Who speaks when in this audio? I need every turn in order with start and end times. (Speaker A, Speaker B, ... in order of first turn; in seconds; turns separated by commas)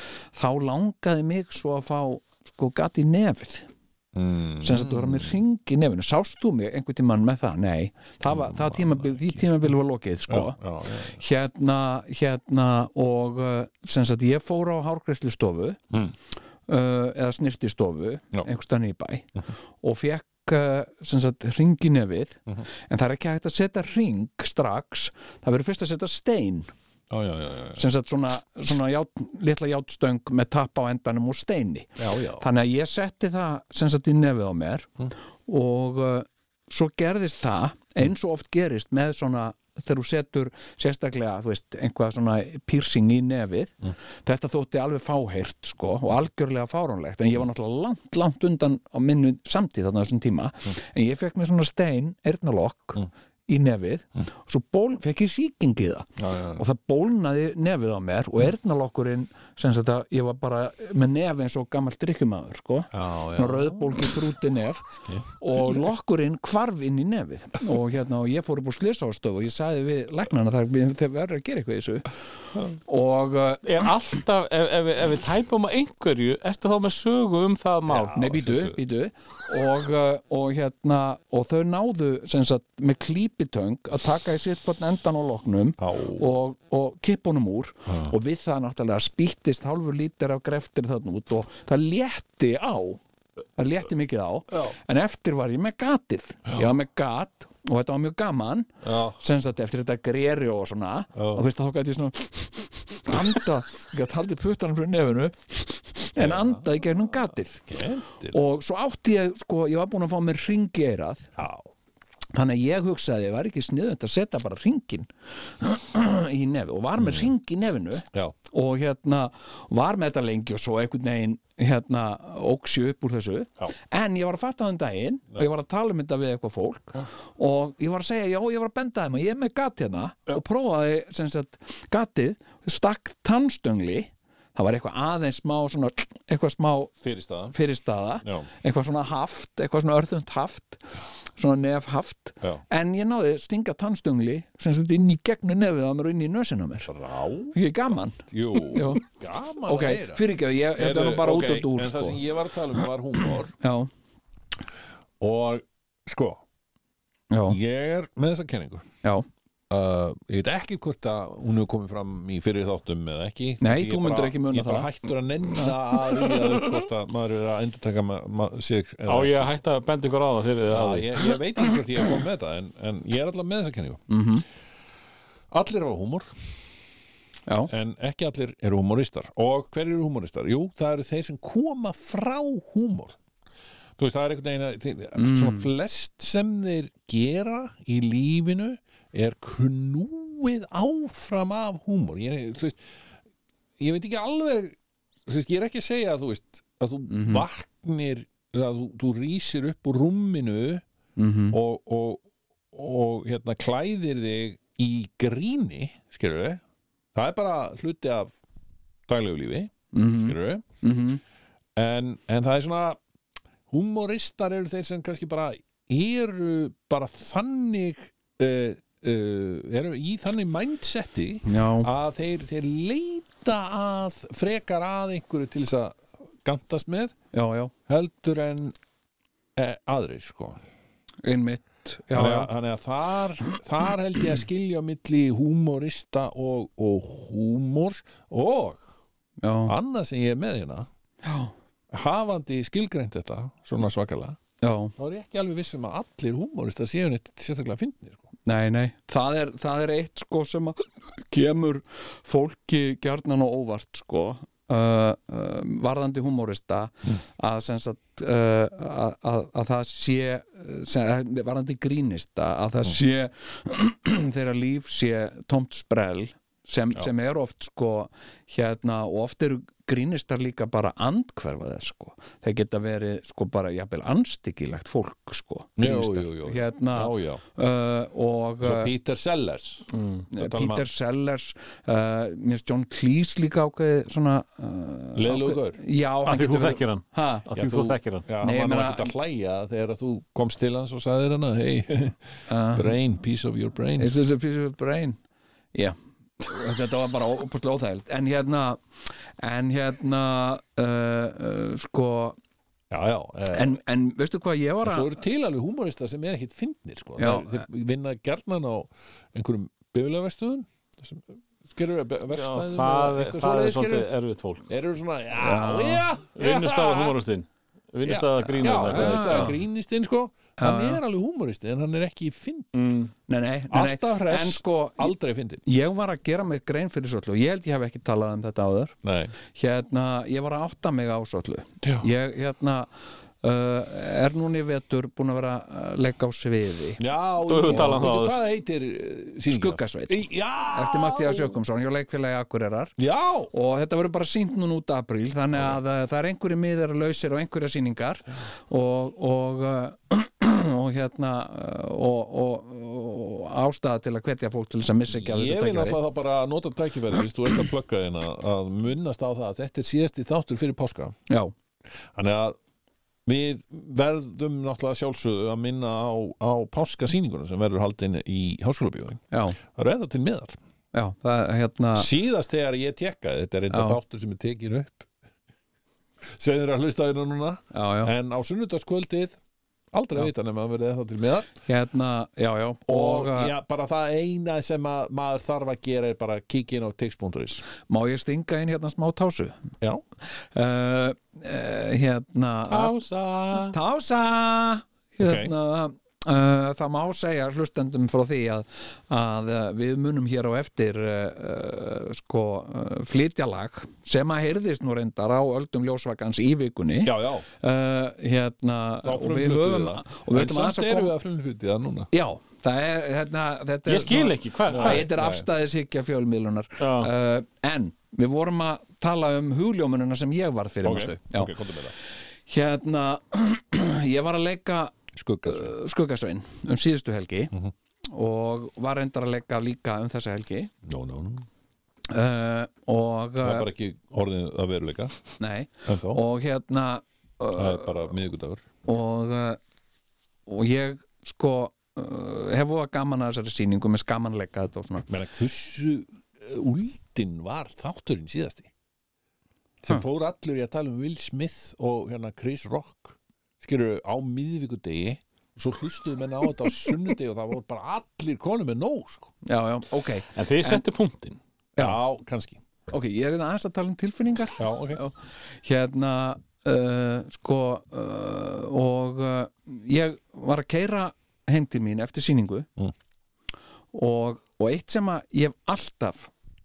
Speaker A: 0.3-3.7, Speaker B: 4.1-5.4, Speaker A: 4.6-15.8, Speaker B: 8.2-9.7, Speaker B: 10.3-11.2, Speaker A: 16.7-26.7, Speaker B: 27.1-27.8, Speaker A: 27.8-34.9, Speaker B: 32.0-32.5, Speaker A: 35.5-64.8, Speaker B: 56.2-56.6, Speaker B: 62.9-64.2, Speaker B: 65.0-65.8, Speaker A: 65.4-72.1, Speaker A: 72.7-73.7, Speaker C: 73.6-78.2, Speaker B: 77.9-78.8, Speaker A: 78.1-93.0, Speaker B: 85.8-86.2, Speaker B: 87.9-88.1, Speaker A: 93.6-107.7, Speaker B: 98.8-99.2, Speaker B: 101.1-101.4, Speaker B: 106.2-106.7, Speaker B: 107.5-108.4, Speaker A: 108.3-111.3, Speaker B: 111.3-111.7, Speaker A: 112.3-136.9, Speaker B: 117.0-117.3, Speaker B: 137.0-137.5, Speaker A: 137.5-140.8, Speaker B: 138.2-138.5, Speaker A: 141.3-146.9, Speaker B: 146.8-147.6, Speaker A: 147.5-149.0, Speaker B: 148.3-153.5, Speaker A: 149.6-152.2, Speaker A: 153.6-153.9, Speaker B: 155.2-156.4, Speaker A: 157.3-157.6, Speaker B: 157.5-158.9, Speaker B: 159.7-169.5, Speaker A: 163.6-164.9, Speaker C: 169.1-171.3, Speaker B: 170.7-174.0, Speaker A: 174.1-174.4, Speaker B: 175.5-176.5, Speaker B: 177.7-183.2, Speaker B: 184.0-192.8, Speaker A: 185.2-185.7, Speaker B: 193.8-200.8, Speaker A: 197.1-197.4, Speaker A: 201.2-201.6, Speaker B: 201.5-206.6, Speaker B: 207.1-208.3, Speaker B: 209.1-210.7, Speaker A: 209.9-211.2, Speaker B: 211.8-213.0, Speaker B: 213.7-227.2, Speaker A: 221.4-221.9, Speaker A: 227.3-227.7, Speaker B: 227.9-228.7, Speaker B: 229.6-230.6, Speaker A: 231.2-232.5, Speaker B: 232.1-238.9, Speaker A: 239.4-239.7, Speaker B: 239.6-240.9, Speaker A: 241.2-241.5, Speaker B: 241.9-244.4, Speaker A: 244.6-244.9, Speaker B: 245.0-248.3, Speaker A: 248.4-278.9, Speaker B: 275.8-277.4, Speaker B: 278.6-279.8, Speaker C: 279.9-280.2, Speaker A: 280.3-287.5, Speaker B: 280.4-280.9, Speaker B: 285.1-285.8, Speaker C: 286.2-288.2, Speaker B: 287.6-292.2, Speaker A: 288.4-289.1, Speaker A: 292.5-292.9, Speaker B: 292.7-294.1, Speaker A: 294.0-295.2, Speaker A: 295.7-302.4, Speaker B: 302.9-303.8, Speaker A: 303.5-305.2, Speaker B: 304.8-314.1, Speaker A: 307.2-307.6, Speaker C: 312.3-314.7, Speaker B: 314.7-317.2, Speaker A: 315.4-316.1, Speaker C: 316.4-319.5, Speaker B: 318.0-322.9, Speaker A: 318.4-319.6, Speaker A: 320.6-321.0, Speaker C: 322.7-323.1, Speaker A: 323.3-325.1, Speaker B: 323.7-325.6, Speaker A: 325.6-328.9, Speaker B: 329.0-329.3, Speaker A: 329.5-332.9, Speaker B: 331.8-332.1, Speaker A: 333.4-337.0, Speaker B: 337.0-341.6, Speaker C: 337.4-338.4, Speaker A: 337.6-338.1, Speaker A: 339.5-342.9, Speaker B: 343.0-343.5, Speaker A: 343.5-356.0, Speaker B: 355.1-361.2, Speaker A: 361.3-361.5, Speaker B: 362.1-362.6, Speaker B: 363.2-370.6, Speaker A: 369.3-369.6, Speaker A: 370.9-372.1, Speaker B: 371.9-375.1, Speaker A: 373.7-374.0, Speaker B: 376.2-379.4, Speaker A: 377.7-378.1, Speaker B: 379.9-381.5, Speaker A: 381.6-383.5, Speaker B: 382.9-387.6, Speaker A: 387.9-389.7, Speaker A: 390.5-393.0, Speaker C: 392.7-393.8, Speaker A: 393.5-411.1, Speaker B: 395.2-395.5, Speaker B: 407.0-407.4, Speaker B: 409.0-412.1, Speaker A: 412.1-421.5, Speaker C: 413.9-415.1, Speaker B: 414.7-415.5, Speaker C: 416.8-417.1, Speaker B: 420.8-421.9, Speaker A: 422.5-427.5, Speaker B: 425.1-425.7, Speaker A: 428.1-430.7, Speaker B: 430.8-431.5, Speaker A: 432.1-433.7, Speaker B: 433.4-435.2, Speaker A: 435.4-438.1, Speaker B: 435.9-436.2, Speaker B: 437.5-438.6, Speaker A: 438.8-439.6, Speaker A: 440.5-445.1, Speaker B: 445.1-448.7, Speaker B: 449.8-459.3, Speaker A: 459.4-460.8, Speaker C: 460.3-461.4, Speaker B: 461.8-462.6, Speaker A: 462.9-472.7, Speaker B: 464.6-465.0, Speaker A: 473.9-476.3